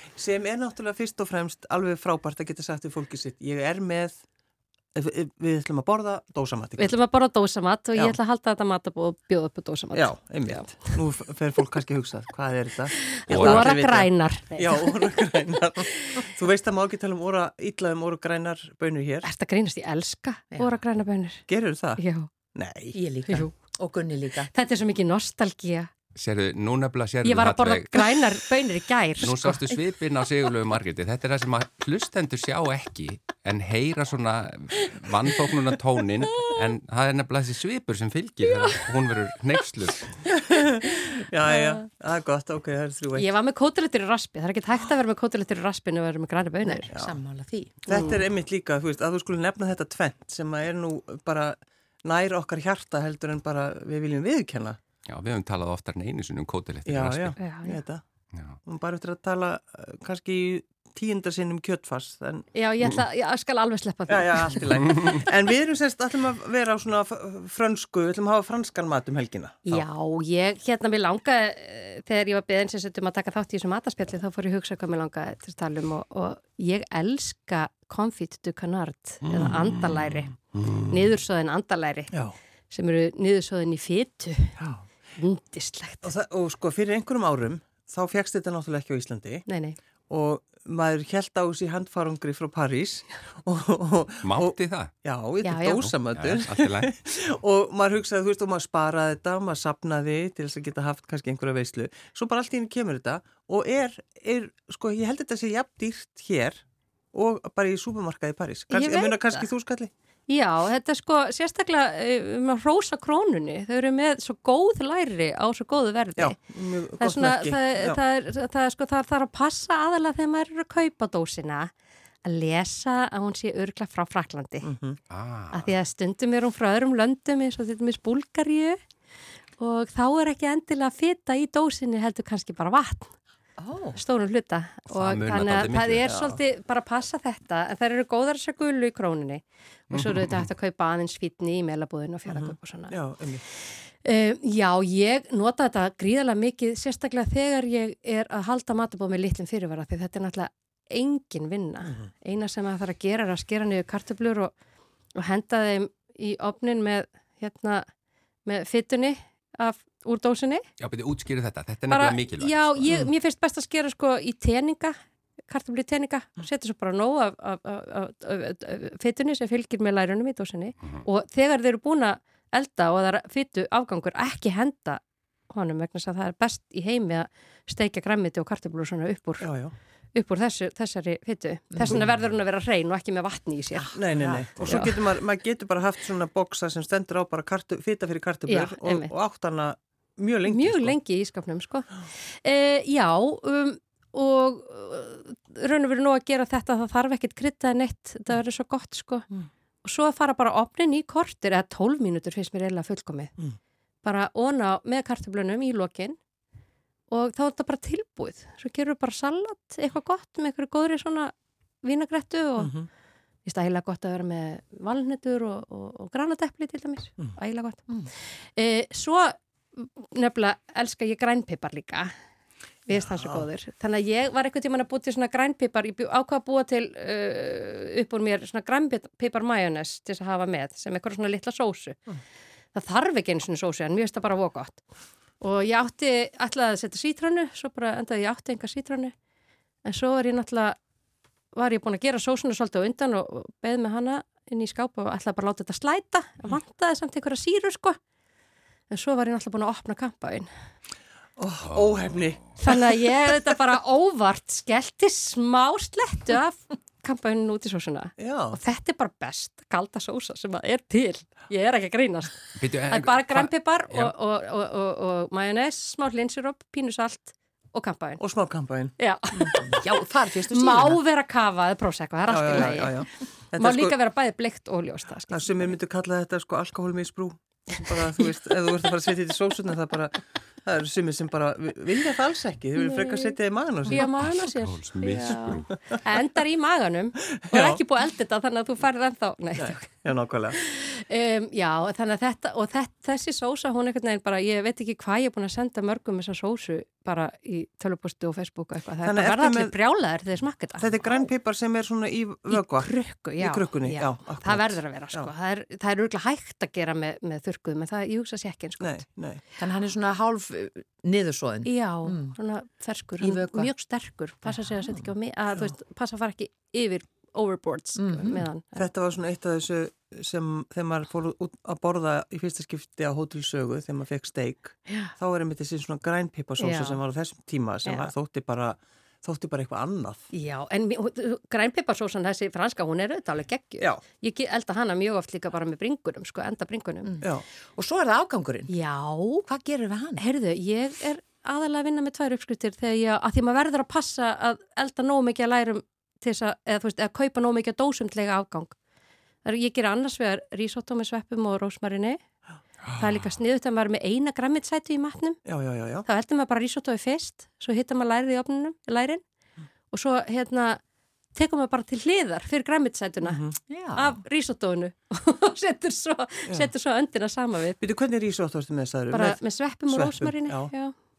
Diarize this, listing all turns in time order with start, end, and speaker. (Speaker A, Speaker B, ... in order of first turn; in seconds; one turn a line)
Speaker A: 0.1-4.2
Speaker A: 4.9-7.0
Speaker B: 6.8-10.8
Speaker A: 9.9-19.3
Speaker B: 13.0-15.1
Speaker C: 13.3-13.7
Speaker B: 19.2-21.4
Speaker A: 21.5-22.0
Speaker B: 22.0-22.3
Speaker A: 22.5-23.0
Speaker D: 22.9-24.5
Speaker B: 23.3-23.5
Speaker B: 24.4-25.9
Speaker C: 26.1-28.2
Speaker B: 27.2-29.6
Speaker C: 29.2-40.1
Speaker A: 40.5-43.3
Speaker B: 41.5-41.8
Speaker B: 43.2-46.9
Speaker D: 46.6-48.2
Speaker A: 47.9-54.8
Speaker B: 47.9-48.2
Speaker C: 55.1-57.4
Speaker A: 56.9-58.0
Speaker B: 57.4-57.8
Speaker A: 58.6-62.5
Speaker B: 62.5-64.7
Speaker A: 64.1-69.8
Speaker B: 69.7-82.1
Speaker C: 79.3-80.9
Speaker B: 82.7-84.5
Speaker A: 84.6-84.8
Speaker B: 85.2-86.1
Speaker A: 86.0-89.5
Speaker B: 89.5-89.8
Speaker A: 90.1-109.9
Speaker C: 94.2-94.9
Speaker B: 95.4-95.9
Speaker C: 95.8-96.9
Speaker B: 108.7-109.5
Speaker B: 110.3-116.4
Speaker A: 116.2-118.0
Speaker B: 117.0-121.7
Speaker B: 122.2-124.7
Speaker A: 124.6-125.0
Speaker C: 125.1-125.7
Speaker B: 125.5-128.8
Speaker B: 129.6-133.1
Speaker D: 133.6-134.0
Speaker B: 133.9-142.9
Speaker C: 134.9-136.1
Speaker A: 136.0-136.4
Speaker C: 139.9-140.5
Speaker A: 142.3-143.4
Speaker B: 144.0-154.5
Speaker B: 155.1-157.9
Speaker B: 158.4-160.6
Speaker C: 160.8-163.0
Speaker B: 161.9-164.9
Speaker A: 162.9-163.1
Speaker B: 165.5-179.5
Speaker A: 179.4-179.7
Speaker B: 180.1-183.9
Speaker D: 181.7-182.0
Speaker D: 183.7-184.7
Speaker A: 183.9-191.0
Speaker C: 184.6-184.9
Speaker B: 184.6-184.9
Speaker B: 188.5-189.1
Speaker B: 190.5-199.3
Speaker B: 199.8-203.3
Speaker B: 204.0-206.2
Speaker B: 207.1-212.7
Speaker A: 212.6-212.9
Speaker B: 213.4-217.8
Speaker B: 218.6-222.1
Speaker B: 222.9-232.0
Speaker A: 222.9-223.5
Speaker B: 232.7-234.8
Speaker B: 235.4-239.1
Speaker B: 239.8-240.8
Speaker B: 241.5-248.0
Speaker B: 248.9-250.5
Speaker A: 251.4-252.8
Speaker C: 251.7-252.5
Speaker B: 252.6-268.2
Speaker A: 258.2-258.6
Speaker C: 262.5-264.1
Speaker A: 268.2-269.5
Speaker B: 269.0-269.9
Speaker D: 269.5-271.0
Speaker B: 270.5-275.7
Speaker A: 272.3-273.9
Speaker A: 275.3-284.0
Speaker B: 277.7-278.1
Speaker B: 282.8-283.4
Speaker C: 283.9-285.7
Speaker B: 283.9-289.9
Speaker A: 287.4-287.8
Speaker A: 289.6-290.6
Speaker B: 290.5-300.9
Speaker A: 299.0-299.7
Speaker A: 300.8-305.3
Speaker B: 302.5-309.0
Speaker A: 308.8-309.4
Speaker D: 309.6-312.3
Speaker B: 311.6-318.9
Speaker D: 313.2-313.7
Speaker D: 314.4-315.1
Speaker D: 318.0-318.4
Speaker A: 318.8-330.2
Speaker B: 326.6-327.0
Speaker B: 327.8-328.1
Speaker B: 330.3-337.1
Speaker D: 337.0-338.7
Speaker B: 338.7-339.4
Speaker D: 339.4-340.2
Speaker B: 340.2-348.8
Speaker B: 349.4-352.2
Speaker A: 352.8-353.1
Speaker B: 352.9-355.4
Speaker A: 355.4-356.1
Speaker B: 356.1-359.2
Speaker B: 359.9-360.8
Speaker B: 361.3-363.4
Speaker A: 363.2-363.6
Speaker D: 363.7-364.2
Speaker B: 363.9-367.8
Speaker A: 367.8-370.7
Speaker B: 369.1-370.9